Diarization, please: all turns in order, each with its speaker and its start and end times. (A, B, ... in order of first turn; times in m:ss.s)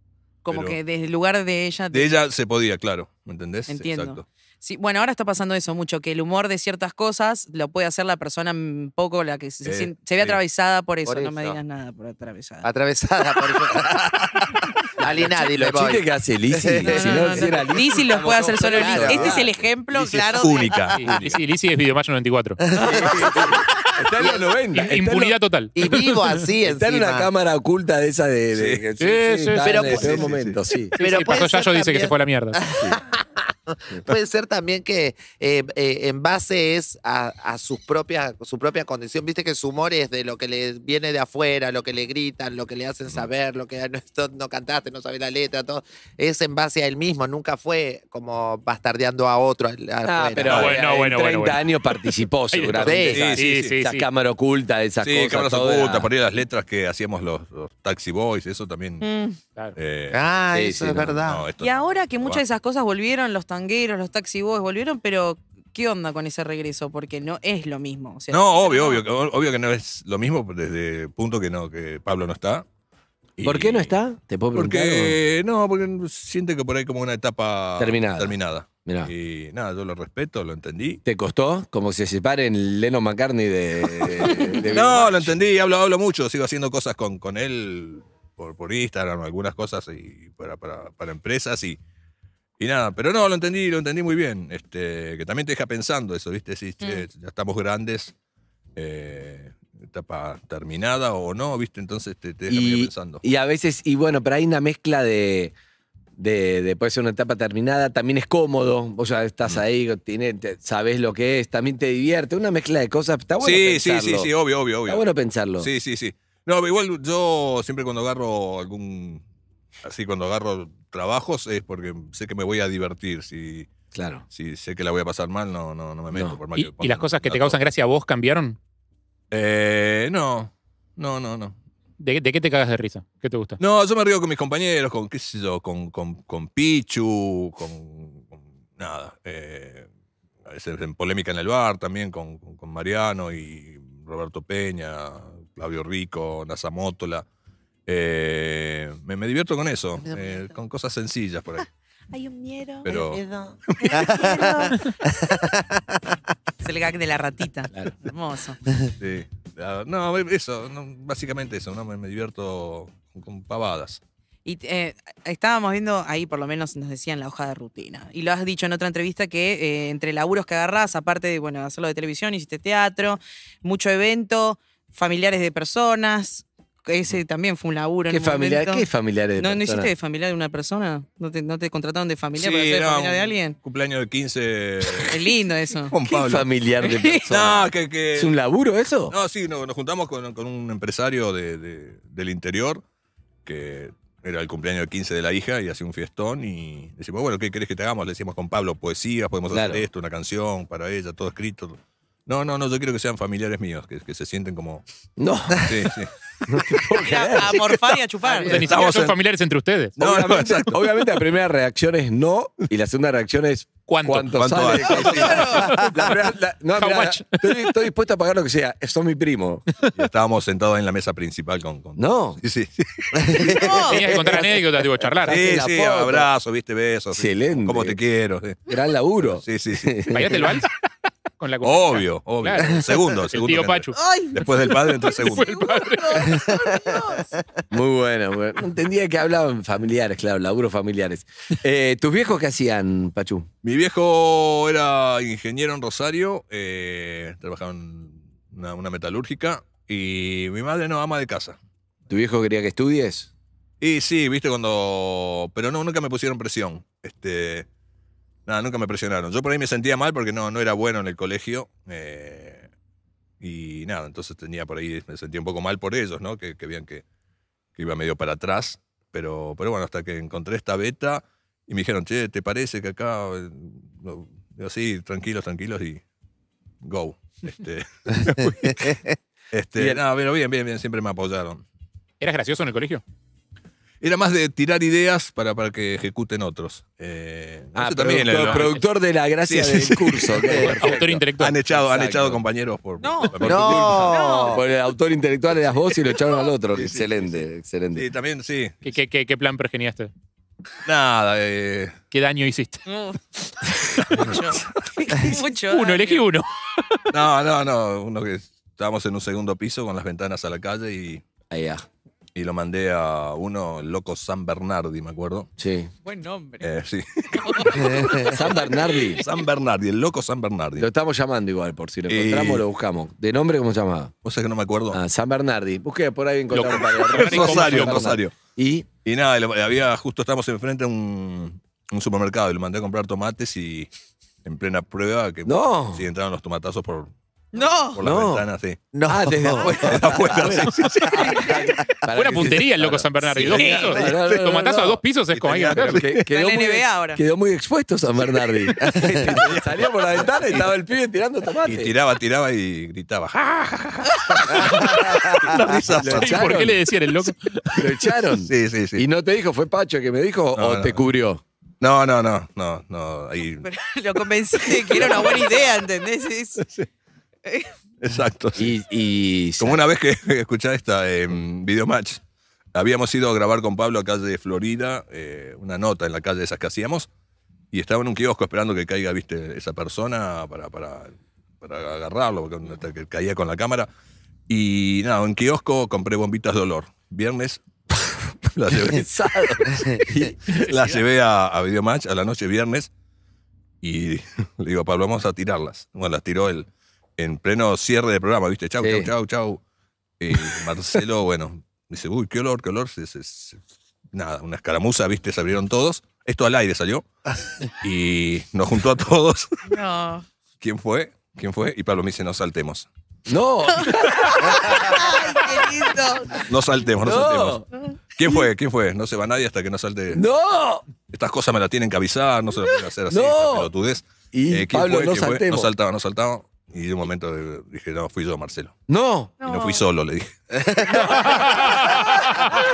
0:00.4-0:02.1 A
0:00.5-0:00.8 B
0:01.9-0:04.2 B
0:03.7-0:12.6 A
0:09.6-0:10.4 B
0:11.0-0:11.6 C
0:12.6-0:19.5 C
0:15.5-0:19.5 D
0:16.8-0:20.8 A
0:20.4-0:21.3 B
0:21.0-0:22.6 E
0:22.6-0:25.1 C
0:22.7-0:25.3 D
0:24.7-0:26.2 E
0:25.7-0:27.3 C
0:26.6-0:31.0 D
0:28.5-0:28.8 B
0:29.0-0:29.9 E
0:29.6-0:30.4 C
0:29.7-0:30.6 B
0:31.0-0:32.6 E
0:31.0-0:50.7 C
0:50.0-0:56.1 D
0:50.4-0:51.6 E
0:50.5-0:50.7 B
0:52.5-0:54.1 E
0:52.8-0:53.3 C
0:53.0-0:53.8 B
0:55.0-0:59.0 B
0:59.0-0:59.4 A
0:59.8-1:00.2 B
1:00.1-1:01.4 C
1:00.5-1:01.2 D
1:01.2-1:02.4 B
1:01.6-1:09.0 A
1:08.3-1:12.6 B
1:13.4-1:13.9 B
1:13.4-1:15.2 D
1:14.5-1:21.0 B
1:17.8-1:19.1 D
1:21.0-1:25.4 D
1:24.2-1:31.8 B
1:32.6-1:38.1 B
1:36.8-1:37.0 A
1:38.8-1:43.2 B
1:42.5-1:45.5 D
1:46.2-1:54.3 D
1:53.4-1:55.0 B
1:54.9-1:55.7 D
1:55.6-1:59.2 B
1:59.8-2:03.7 B
2:03.9-2:04.2 D
2:04.3-2:07.6 B
2:06.1-2:06.4 D
2:06.6-2:08.6 E
2:09.3-2:11.6 B
2:12.0-2:13.6 E
2:13.6-2:19.9 B
2:20.4-2:27.2 B
2:27.9-2:31.6 B
2:32.1-2:32.9 A
2:32.8-2:33.2 B
2:32.9-2:36.0 C
2:33.8-2:34.7 A
2:36.6-2:38.6 A
2:39.0-2:44.0 B
2:44.4-2:58.8 A
2:58.1-2:59.9 D
2:59.4-3:03.6 A
3:02.4-3:05.2 B
3:05.1-3:05.9 A
3:05.9-3:06.5 B
3:05.9-3:09.2 D
3:06.8-3:07.2 A
3:07.3-3:08.4 B
3:09.1-3:12.8 B
3:13.4-3:24.8 B
3:19.5-3:19.8 D
3:25.2-3:25.9 D
3:25.6-3:26.1 B
3:26.5-3:27.7 D
3:27.0-3:28.5 A
3:28.3-3:28.7 C
3:28.4-3:30.0 E
3:28.5-3:29.2 B
3:30.0-3:30.9 B
3:30.0-3:39.6 D
3:33.9-3:34.3 E
3:34.3-3:35.7 B
3:35.0-3:35.7 A
3:35.6-3:36.1 E
3:36.8-3:37.5 E
3:40.0-3:43.5 B
3:42.0-3:42.4 D
3:43.2-3:43.7 C
3:43.5-3:44.0 A
3:43.8-3:45.4 E
3:44.0-3:44.6 D
3:45.2-3:46.3 D
3:45.3-3:48.6 B
3:47.1-3:48.0 D
3:48.7-3:50.5 D
3:49.2-3:50.2 B
3:50.1-3:50.7 E
3:51.4-3:54.0 E
3:51.6-3:55.5 B
3:53.9-3:57.3 A
3:55.2-3:56.5 E
3:57.7-4:03.5 D
4:03.6-4:11.6 B
4:12.1-4:13.3 D
4:13.8-4:17.7 B
4:18.4-4:22.7 B
4:23.4-4:27.0 B
4:27.8-4:36.0 B
4:36.8-4:39.0 B
4:39.5-4:41.6 B
4:39.8-4:40.0 D
4:42.2-4:43.0 E
4:44.0-4:48.8 B
4:47.7-4:51.2 D
4:49.5-4:54.2 B
4:50.5-4:51.6 E
4:51.8-4:52.4 D
4:53.0-4:53.4 A
4:53.4-4:54.6 C
4:53.9-4:54.6 A
4:54.5-4:58.0 D
4:56.7-4:58.9 B
4:58.8-5:00.1 E
5:00.8-5:02.0 B
5:02.1-5:02.8 E
5:02.8-5:03.2 A
5:04.1-5:06.2 A
5:05.7-5:06.5 E
5:07.1-5:11.2 B
5:11.5-5:11.8 D
5:12.3-5:15.5 B
5:15.6-5:15.9 D
5:16.0-5:16.7 A
5:16.6-5:18.5 B
5:17.3-5:18.1 A
5:17.9-5:18.2 C
5:18.2-5:19.2 D
5:19.2-5:20.9 B
5:20.8-5:24.1 D
5:22.1-5:22.6 B
5:24.2-5:25.0 B
5:24.9-5:28.9 D
5:26.5-5:28.1 E
5:26.9-5:28.3 B
5:29.0-5:33.9 B
5:34.4-5:37.1 B
5:35.4-5:36.1 D
5:37.5-5:38.0 A
5:37.9-5:38.8 B
5:38.0-5:38.5 D
5:38.9-5:40.2 C
5:39.0-5:45.0 D
5:39.8-5:41.6 B
5:42.1-5:46.1 E
5:43.4-5:43.9 A
5:45.3-5:46.2 B
5:45.8-5:51.9 D
5:46.3-5:47.2 A
5:48.8-5:49.4 C
5:48.9-5:50.7 B
5:51.6-5:56.7 B
5:55.9-5:56.8 D
5:56.0-5:57.8 E
5:57.8-6:01.4 D
5:58.4-5:59.0 B
6:00.5-6:01.0 B
6:01.8-6:03.7 B
6:03.6-6:06.6 A
6:04.8-6:05.4 B
6:07.4-6:07.7 A
6:08.0-6:08.7 B
6:08.6-6:09.8 D
6:09.6-6:12.2 B
6:12.7-6:17.1 B
6:17.7-6:23.9 B
6:24.5-6:27.6 B
6:28.4-6:29.1 B
6:28.7-6:30.7 D
6:30.6-6:32.9 B
6:33.8-6:39.6 B
6:38.8-6:39.1 D
6:40.2-6:43.6 B
6:44.1-6:47.0 B
6:47.8-6:49.6 B
6:49.6-6:50.2 A
6:50.6-6:52.9 B
6:53.3-6:54.6 D
6:53.8-6:56.4 A
6:56.4-6:57.6 B
6:57.0-6:57.6 D
6:58.2-7:00.2 B
7:00.1-7:00.8 D
7:01.1-7:08.7 B
7:03.1-7:03.7 D
7:04.3-7:05.7 D
7:08.9-7:09.3 D
7:09.4-7:09.8 A
7:09.4-7:10.3 B
7:10.6-7:11.3 C